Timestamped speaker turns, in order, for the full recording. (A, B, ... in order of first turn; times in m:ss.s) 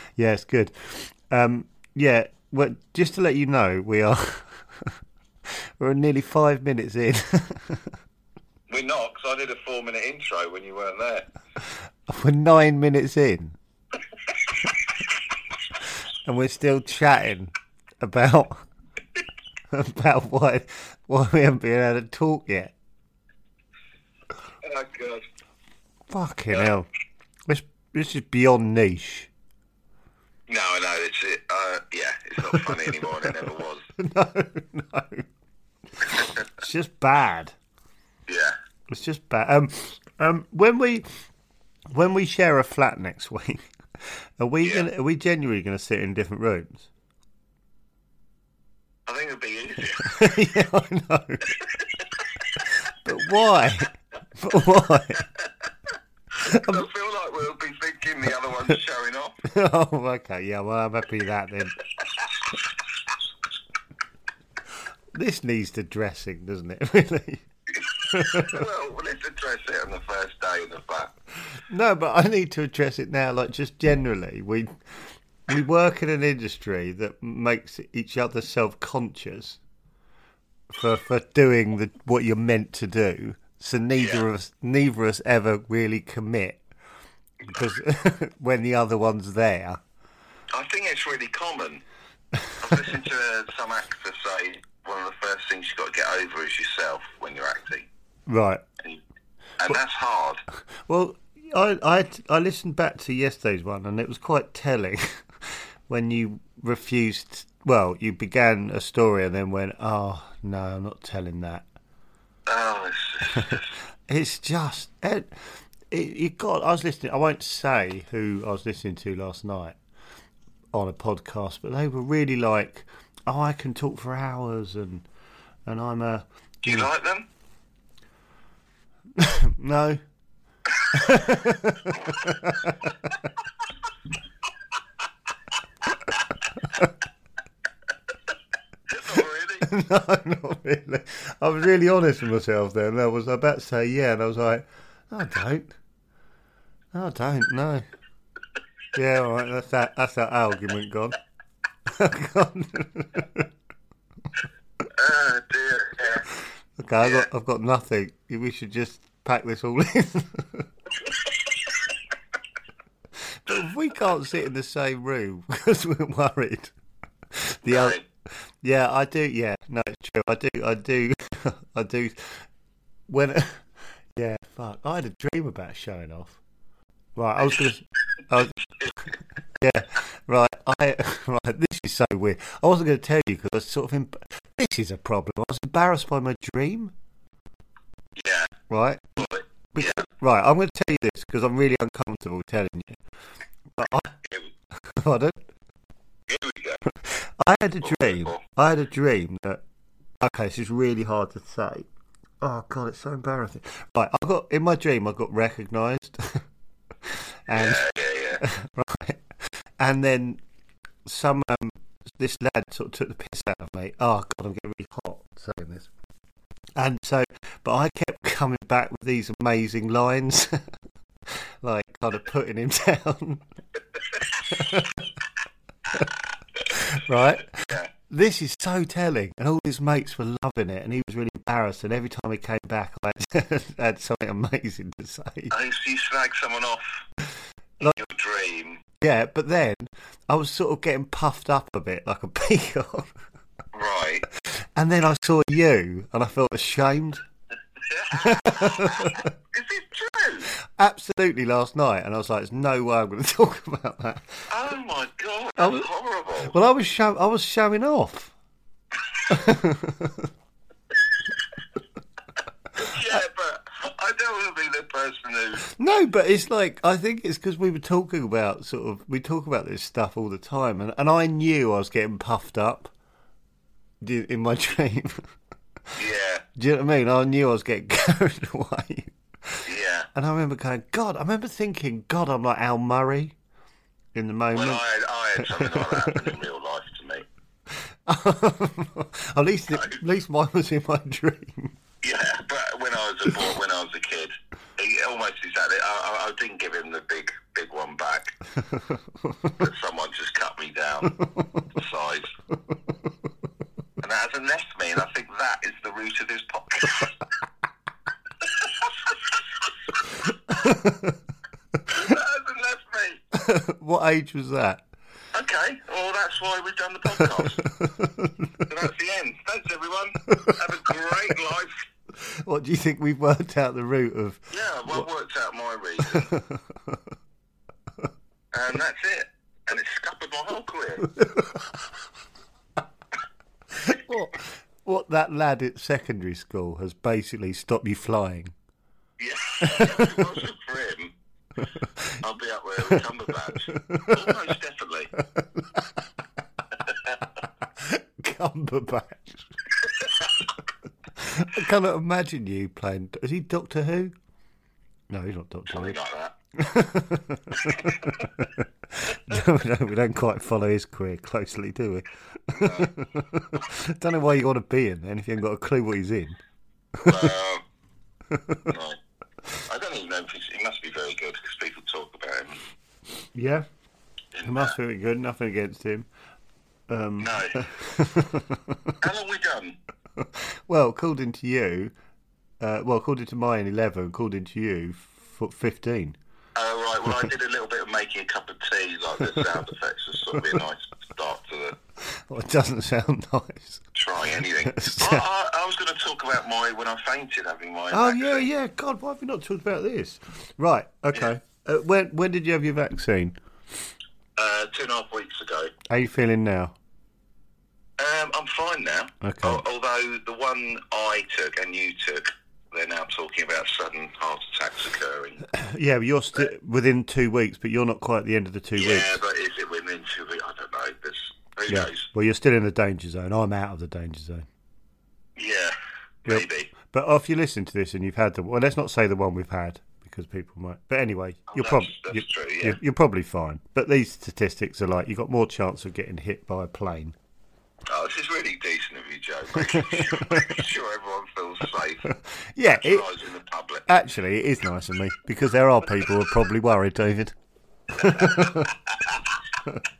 0:00.2-0:05.0 A
0:05.5-0:08.0 A
0:08.7-0:11.3 B
0:12.1-0:13.6 A
0:16.2-0:18.6 A
0:19.7-0:22.7 A
0:24.6-0:25.2 B
0:26.1-0:26.9 A
0:27.5-0:29.3 A
0:30.5-0:33.9 B
0:32.5-0:33.4 A
0:34.0-0:35.3 A
0:36.0-0:37.5 A
0:38.3-0:38.6 B
0:38.9-0:41.1 A
0:41.9-0:43.7 A
0:44.4-0:46.9 A
0:49.1-0:50.5 B
0:50.0-0:51.6 A
0:53.0-0:55.2 A
0:56.4-0:56.8 A
0:56.4-0:59.3 B
0:59.4-1:01.8 A
1:05.1-1:07.4 A
1:07.8-1:11.1 B
1:08.0-1:08.6 A
1:11.7-1:14.8 A
1:15.5-1:19.6 A
1:20.7-1:26.6 A
1:24.0-1:24.2 B
1:27.5-1:29.8 A
1:30.5-1:31.8 B
1:32.6-1:37.9 B
1:38.3-1:38.6 A
1:39.6-1:40.4 B
1:40.9-1:51.6 A
1:52.5-1:53.7 B
1:53.3-1:59.8 A
2:00.7-2:05.1 A
2:05.6-2:06.9 A
2:06.6-2:07.3 B
2:09.2-2:10.0 A
2:10.9-2:12.9 A
2:18.9-2:19.7 B
2:19.6-2:25.7 A
2:26.9-2:27.8 A
2:28.9-2:31.2 A
2:31.8-2:33.5 A
2:34.9-2:36.3 B
2:36.8-2:40.6 A
2:37.0-2:37.3 B
2:43.3-2:46.7 A
2:47.3-2:48.0 A
2:47.6-2:48.0 B
2:48.6-2:52.4 A
2:53.1-2:53.6 A
2:54.1-2:56.4 A
2:57.2-2:58.6 A
2:59.6-3:06.9 A
3:08.2-3:08.6 B
3:08.7-3:13.0 A
3:09.2-3:10.0 B
3:13.8-3:14.2 A
3:14.9-3:15.4 A
3:16.3-3:16.8 B
3:17.0-3:19.6 A
3:17.8-3:18.4 B
3:20.2-3:21.9 A
3:22.4-3:26.4 A
3:27.1-3:27.8 A
3:27.5-3:28.4 B
3:28.4-3:30.4 A
3:31.0-3:35.9 A
3:36.8-3:40.7 A
3:41.3-3:43.4 A
3:44.5-3:45.0 A
3:46.7-3:55.5 A
3:47.6-3:47.9 B
3:55.5-3:57.0 B
3:57.8-3:58.8 B
3:59.0-4:03.1 A
4:03.7-4:04.3 B
4:04.8-4:07.2 A
4:07.9-4:10.5 B
4:08.1-4:09.3 A
4:10.6-4:14.5 A
4:14.5-4:16.5 B
4:15.6-4:15.9 A
4:16.4-4:18.3 A
4:19.3-4:20.3 A
4:22.8-4:25.7 B
4:25.6-4:32.9 A
4:34.0-4:35.3 A
4:35.9-4:36.4 B
4:36.6-4:39.6 A
4:39.6-4:40.1 B
4:40.1-4:43.3 A
4:44.1-4:44.8 A
4:44.5-4:47.2 B
4:45.4-4:46.3 A
4:48.0-4:51.8 A
4:52.0-4:58.3 B
4:59.6-5:01.2 B
5:01.7-5:02.3 B
5:04.0-5:07.1 B
5:08.6-5:09.3 B
5:10.5-5:11.2 A
5:11.9-5:13.2 B
5:13.3-5:14.8 A
5:15.3-5:17.6 B
5:17.4-5:18.5 A
5:18.7-5:21.7 B
5:22.2-5:25.0 A
5:24.5-5:26.3 B
5:26.0-5:27.0 A
5:28.5-5:31.1 B
5:31.2-5:31.6 A
5:33.7-5:38.5 A
5:39.2-5:41.1 B
5:39.6-5:40.3 A
5:42.2-5:45.1 B
5:43.7-5:44.4 A
5:45.2-5:46.0 A
5:47.8-5:49.5 A
5:51.2-5:54.1 A
5:55.1-5:56.0 A
5:55.7-5:56.3 B
5:56.6-6:06.4 A
6:02.5-6:02.9 B
6:07.0-6:07.2 A
6:07.0-6:07.6 B
6:08.3-6:08.6 A
6:08.7-6:09.0 B
6:09.6-6:12.6 B
6:13.3-6:13.6 A
6:14.3-6:14.7 B
6:14.4-6:16.1 A
6:16.9-6:18.9 A
6:17.2-6:17.7 B
6:19.0-6:19.8 B
6:20.2-6:21.9 A
6:22.6-6:26.2 A
6:26.6-6:31.8 B
6:32.0-6:33.8 A
6:33.9-6:38.4 B
6:34.6-6:35.3 A
6:37.9-6:43.4 A
6:44.4-6:45.7 B
6:45.9-6:46.7 A
6:48.0-6:55.5 B
6:49.2-6:49.6 A
6:55.5-6:59.2 A
6:58.7-7:02.1 B
7:01.7-7:04.4 A
7:05.4-7:06.7 B
7:06.2-7:17.2 A
7:11.5-7:12.8 B
7:17.9-7:22.1 B
7:19.6-7:20.6 A
7:22.1-7:23.1 A
7:22.7-7:23.9 B
7:23.9-7:27.3 A
7:27.9-7:28.7 A
7:28.0-7:28.7 B